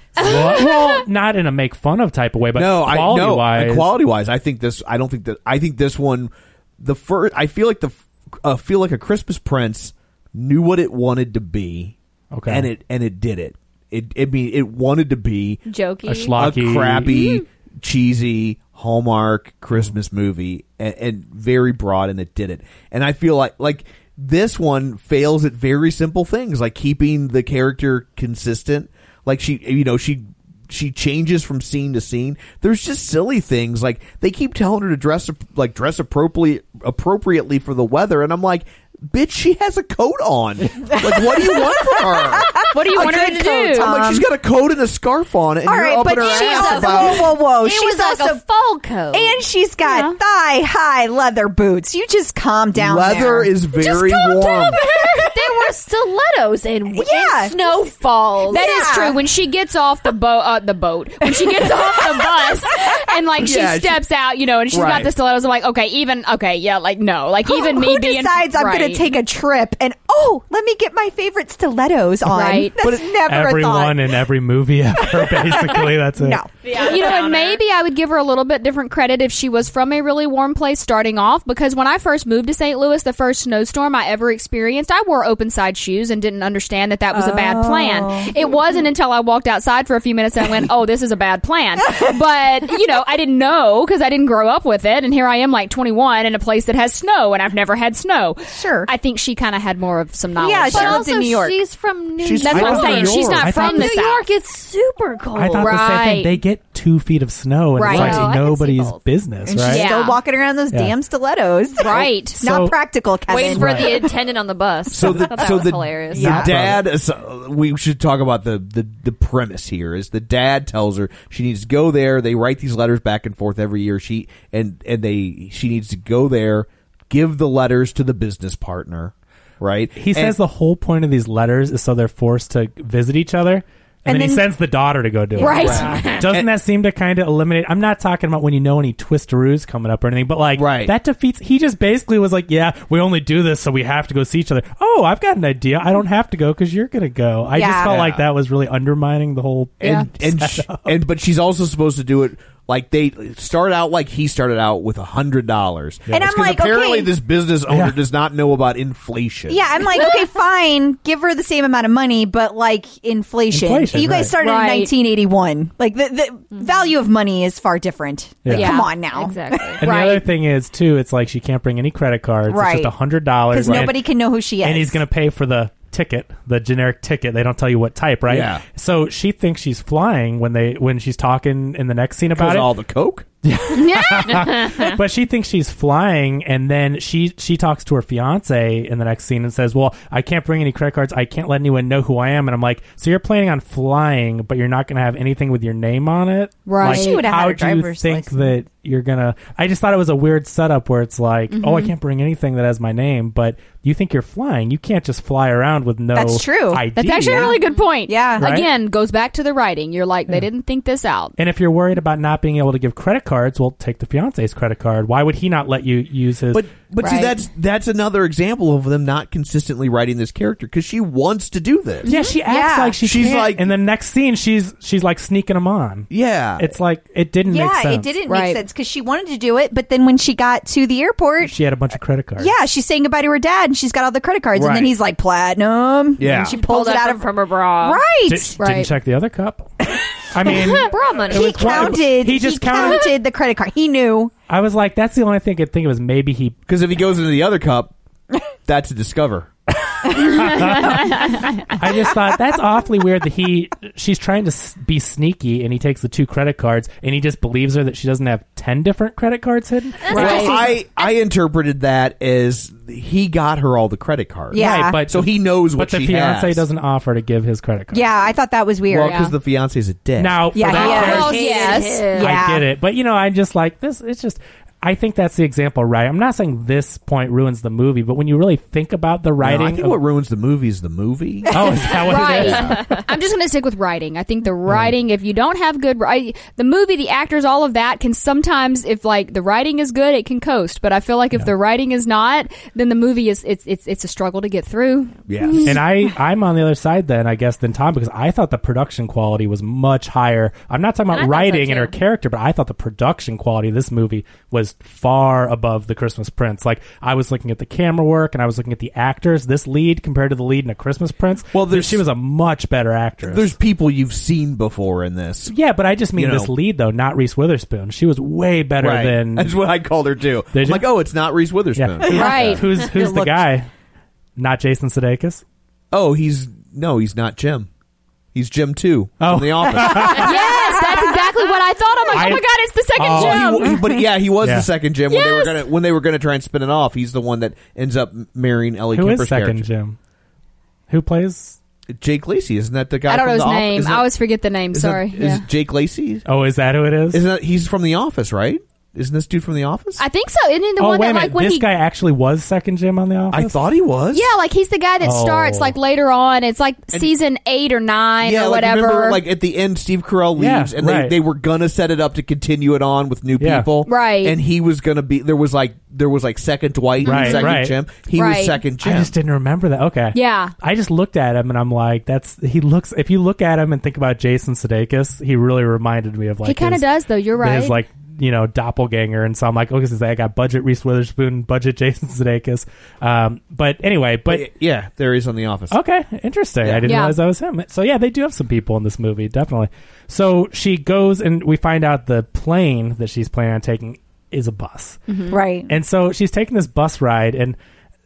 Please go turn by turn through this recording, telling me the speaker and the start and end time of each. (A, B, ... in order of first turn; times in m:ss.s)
0:00.2-0:03.9 A
0:00.2-0:01.0 B
0:02.5-0:12.0 C
0:12.3-0:12.7 A
0:12.5-0:15.6 C
0:15.7-0:16.3 D
0:16.1-0:17.1 A
0:16.4-0:47.3 C
0:41.5-0:44.3 E
0:42.7-0:44.0 B
0:45.7-0:48.4 E
0:46.1-0:49.4 D
0:49.1-0:53.5 E
0:49.8-0:50.2 B
0:52.8-0:54.8 C
0:54.0-0:58.6 D
0:56.9-0:57.6 E
0:58.5-1:09.1 B
0:58.5-0:59.2 E
1:01.5-1:02.3 E
1:03.4-1:04.0 C
1:04.7-1:05.1 C
1:07.4-1:14.2 E
1:12.2-1:12.8 B
1:12.8-1:13.1 C
1:13.2-1:16.4 A
1:15.0-1:16.5 E
1:16.6-1:17.6 D
1:16.7-1:41.5 B
1:27.1-1:28.6 E
1:38.5-1:38.9 E
1:40.4-1:41.5 E
1:40.7-1:45.7 D
1:42.2-1:43.5 C
1:42.4-1:44.3 B
1:42.5-1:43.9 A
1:45.4-1:49.9 A
1:45.6-1:46.4 B
1:47.8-1:48.3 B
1:47.8-1:49.0 D
1:49.5-1:54.1 E
1:49.6-1:50.2 B
1:51.8-1:52.4 B
1:52.4-1:52.8 A
1:53.3-1:56.3 D
1:53.4-1:54.1 A
1:54.9-2:10.4 C
1:56.1-1:56.6 E
1:56.2-1:56.8 A
2:10.0-2:31.0 A
2:14.1-2:14.5 E
2:15.4-2:15.7 E
2:15.4-2:16.2 B
2:15.4-2:16.5 C
2:20.6-2:21.0 C
2:27.5-2:27.9 E
2:27.8-2:28.3 C
2:29.8-2:39.8 C
2:36.1-2:37.1 E
2:37.7-2:38.0 A
2:39.5-2:49.7 E
2:43.5-2:44.4 A
2:44.4-2:44.9 B
2:48.4-2:48.7 A
2:48.5-2:50.2 B
2:49.0-2:49.8 D
2:49.8-2:54.0 A
2:52.5-2:52.9 E
2:53.5-2:55.0 E
2:53.6-2:53.9 C
2:54.6-3:02.7 A
2:58.3-2:58.6 C
3:02.3-3:03.3 C
3:03.4-3:27.6 A
3:03.8-3:04.8 B
3:16.7-3:17.3 B
3:16.8-3:18.6 E
3:21.5-3:21.9 B
3:26.1-3:27.5 E
3:27.0-3:31.4 B
3:28.1-3:28.5 E
3:28.4-3:28.7 A
3:31.4-3:36.6 A
3:36.5-3:42.1 C
3:37.0-3:37.3 B
3:42.1-3:48.1 A
3:42.2-3:43.0 E
3:43.0-3:43.7 C
3:46.1-3:46.8 C
3:47.5-3:51.6 E
3:48.3-3:48.6 B
3:51.4-3:52.5 A
3:52.4-3:57.3 E
3:54.5-3:54.9 C
3:56.2-3:56.6 C
3:56.5-3:58.0 D
3:57.8-3:58.6 E
3:58.3-3:59.7 A
3:58.6-3:58.9 B
4:00.3-4:03.1 A
4:00.5-4:02.0 D
4:01.3-4:04.3 E
4:04.5-4:06.6 A
4:06.7-4:07.9 C
4:08.7-4:09.5 C
4:10.1-4:20.4 A
4:11.0-4:11.6 B
4:20.0-4:21.2 D
4:20.1-4:26.6 C
4:20.1-4:20.7 B
4:24.5-4:25.0 E
4:24.5-4:28.0 A
4:27.9-4:29.3 E
4:28.9-4:31.2 C
4:29.0-4:29.3 B
4:30.2-4:31.4 A
4:30.5-4:32.7 E
4:30.7-4:32.3 D
4:31.0-4:32.2 B
4:32.2-4:40.0 A
4:39.4-4:42.7 C
4:41.5-4:43.0 A
4:42.0-4:55.8 B
4:44.7-4:45.0 A
4:55.3-4:55.8 C
4:55.6-5:13.5 A
5:01.1-5:02.0 D
5:11.5-5:12.0 C
5:13.2-5:15.5 C
5:15.5-5:19.5 A
5:16.1-5:16.5 C
5:18.8-5:22.7 C
5:20.5-5:20.8 A
5:21.8-5:23.7 A
5:22.1-5:22.6 B
5:22.8-5:23.4 E
5:24.4-5:25.4 A
5:25.9-5:27.7 C
5:28.3-5:30.3 C
5:29.2-5:30.3 A
5:30.0-5:31.2 E
5:30.2-5:33.8 B
5:32.1-5:33.8 A
5:33.1-5:39.7 C
5:34.4-5:34.7 A
5:35.1-5:35.7 B
5:38.9-5:40.0 A
5:40.9-5:41.6 A
5:42.0-5:44.1 C
5:43.1-5:45.4 B
5:44.7-5:46.2 C
5:46.3-5:47.2 A
5:47.1-5:50.0 C
5:50.0-5:51.7 B
5:50.8-5:53.6 A
5:53.3-5:54.3 C
5:54.1-5:59.2 B
5:55.0-5:55.8 A
5:58.2-6:09.1 C
6:00.4-6:01.2 A
6:03.4-6:03.7 A
6:03.8-6:04.4 B
6:07.0-6:07.6 B
6:07.0-6:07.8 A
6:08.1-6:08.6 B
6:08.8-6:16.9 A
6:10.1-6:10.5 B
6:16.4-6:17.8 B
6:17.4-6:24.5 A
6:24.3-6:25.8 C
6:25.7-6:35.0 A
6:26.6-6:26.9 C
6:26.9-6:27.2 B
6:35.1-6:35.4 B
6:35.3-6:35.7 E
6:35.7-6:37.6 A